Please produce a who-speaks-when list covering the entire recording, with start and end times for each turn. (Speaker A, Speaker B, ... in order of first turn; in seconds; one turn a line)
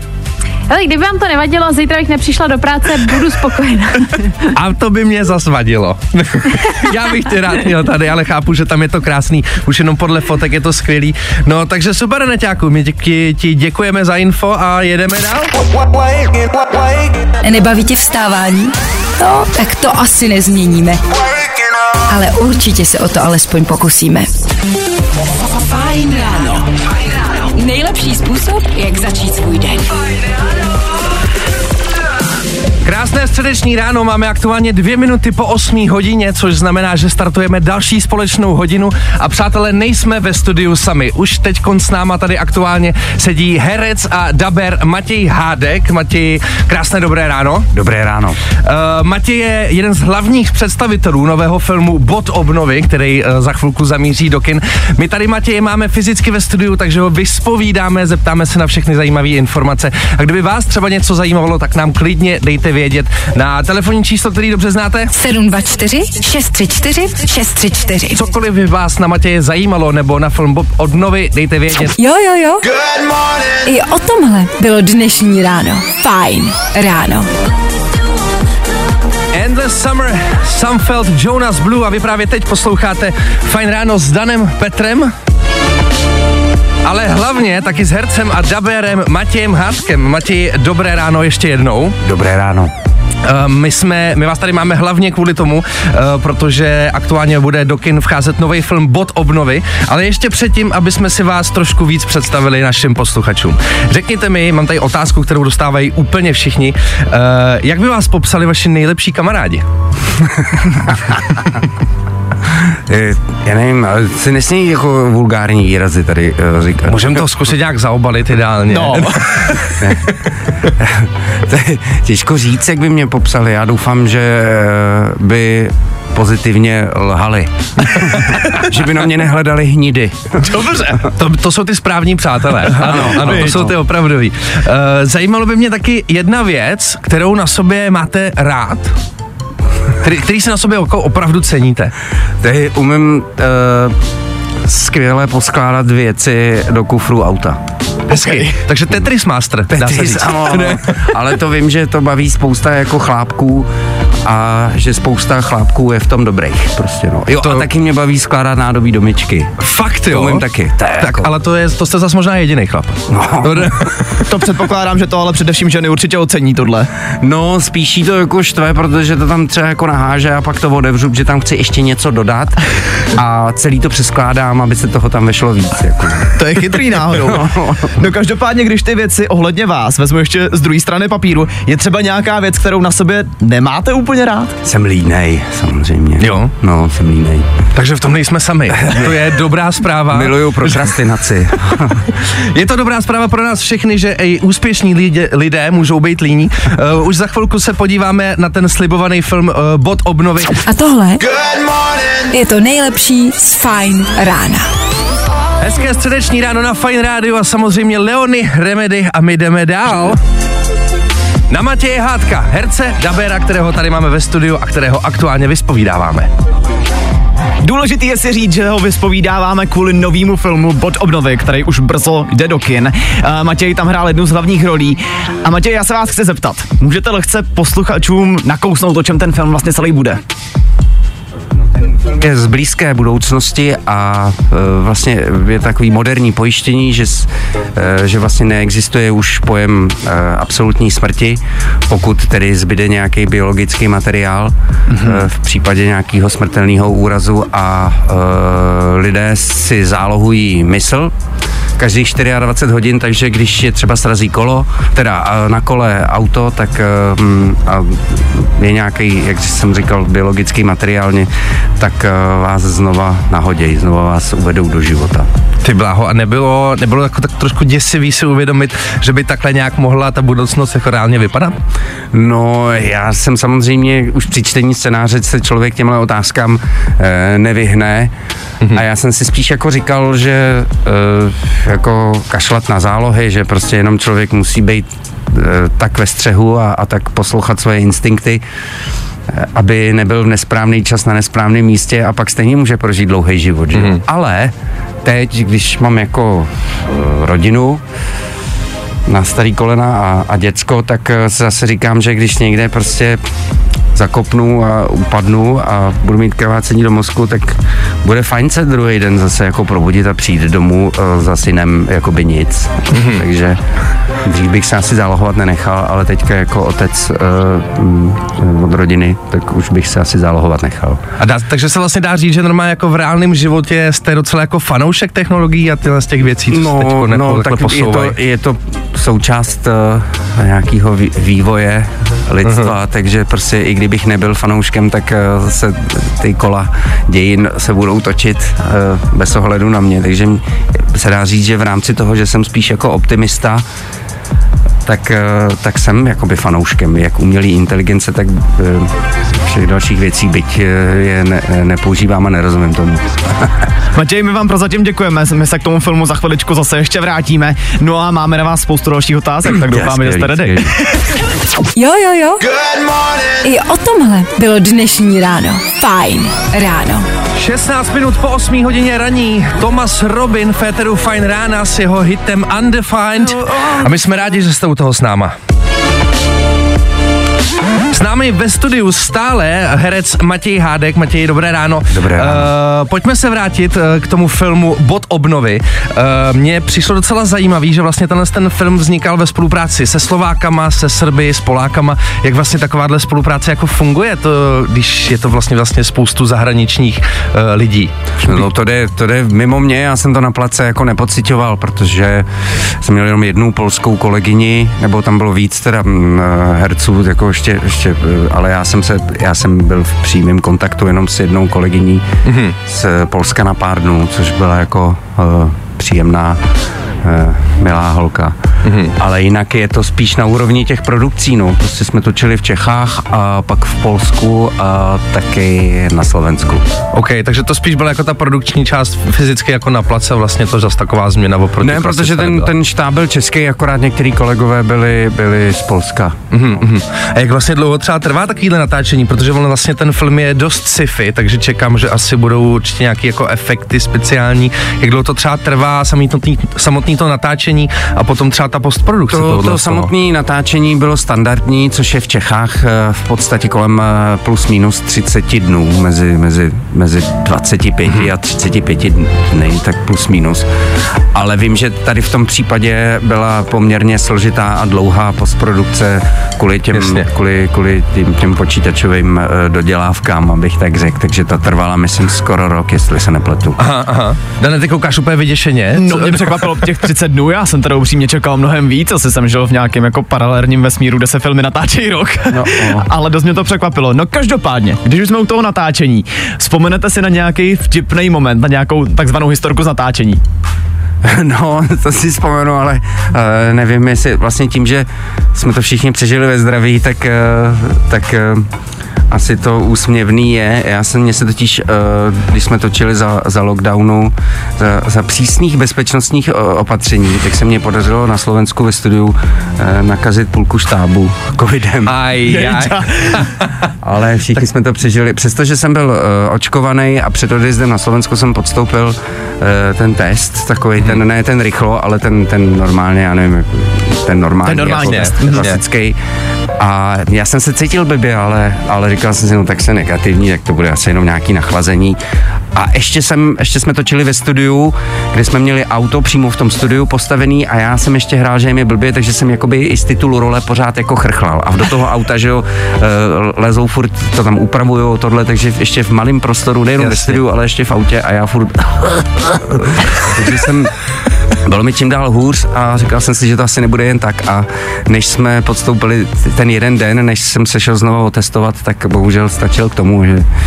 Speaker A: 0.7-4.3
Speaker B: 4.5-15.5
Speaker C: 17.4-21.0
Speaker C: 22.1-24.3
Speaker C: 25.4-30.1
Speaker B: 32.8-47.7
Speaker D: 47.7-48.4
Speaker B: 48.6-65.1
Speaker C: 65.1-68.2
Speaker B: 68.1-71.9
Speaker C: 72.0-72.7
Speaker C: 73.6-77.3
Speaker B: 79.3-85.1
Speaker B: 86.8-92.0
Speaker D: 92.0-92.7
Speaker B: 93.2-109.6
Speaker D: 112.9-117.2
Speaker B: 116.9-119.7
Speaker E: 118.7-119.7
Speaker D: 119.8-120.1
Speaker D: 120.8-130.6
Speaker B: 130.5-138.9
Speaker D: 132.7-133.8
Speaker E: 133.2-133.4
Speaker B: 140.0-141.9
Speaker D: 142.4-143.9
Speaker D: 144.6-147.6
Speaker B: 148.1-151.0
Speaker E: 148.1-148.5
Speaker D: 149.7-153.7
Speaker D: 154.2-159.5
Speaker B: 157.3-157.7
Speaker B: 159.6-160.4
Speaker D: 160.1-161.3
Speaker B: 161.0-164.2
Speaker D: 163.1-163.9
Speaker E: 164.2-166.9
Speaker D: 167.2-172.6
Speaker D: 173.1-177.9
Speaker E: 176.3-184.6
Speaker D: 184.6-187.5
Speaker B: 186.2-186.5
Speaker B: 187.7-190.9
Speaker D: 188.7-189.4
Speaker D: 190.0-192.0
Speaker B: 192.1-200.6
Speaker C: 200.6-201.3
Speaker C: 202.3-204.7
Speaker B: 205.6-210.2
Speaker B: 211.5-216.3
Speaker E: 217.6-230.2
Speaker D: 231.8-251.1
Speaker E: 244.9-245.2
Speaker D: 251.8-265.3
Speaker B: 265.6-271.5
Speaker D: 272.1-278.1
Speaker D: 278.7-288.4
Speaker D: 289.3-297.8
Speaker B: 293.7-294.0
Speaker D: 299.1-303.2
Speaker D: 303.9-313.6
Speaker B: 312.9-313.2
Speaker D: 314.2-321.0
Speaker B: 321.2-328.1
Speaker D: 326.5-343.6
Speaker B: 332.4-332.7
Speaker D: 344.8-353.5
Speaker E: 353.9-361.1
Speaker D: 359.6-360.8
Speaker C: 361.8-362.5
Speaker C: 363.4-367.1
Speaker B: 367.4-375.3
Speaker B: 377.9-398.5
Speaker D: 381.9-382.5
Speaker D: 398.2-412.0
Speaker B: 412.2-412.6
Speaker D: 412.6-416.4
Speaker D: 417.0-418.3
Speaker B: 418.6-418.9
Speaker D: 419.0-426.6
Speaker B: 426.9-432.5
Speaker D: 431.6-436.1
Speaker B: 436.3-449.9
Speaker D: 449.1-460.4
Speaker D: 461.1-473.6
Speaker B: 466.7-467.1
Speaker B: 473.6-476.6
Speaker E: 475.7-490.2
Speaker D: 482.3-482.9
Speaker D: 491.0-498.4
Speaker D: 499.1-511.9
Speaker B: 511.9-513.7
Speaker E: 512.3-512.7
Speaker D: 513.8-526.0
Speaker E: 524.5-525.5
Speaker B: 524.6-525.6
Speaker D: 526.6-532.0
Speaker D: 532.5-550.7
Speaker B: 546.8-547.2
Speaker D: 551.4-560.2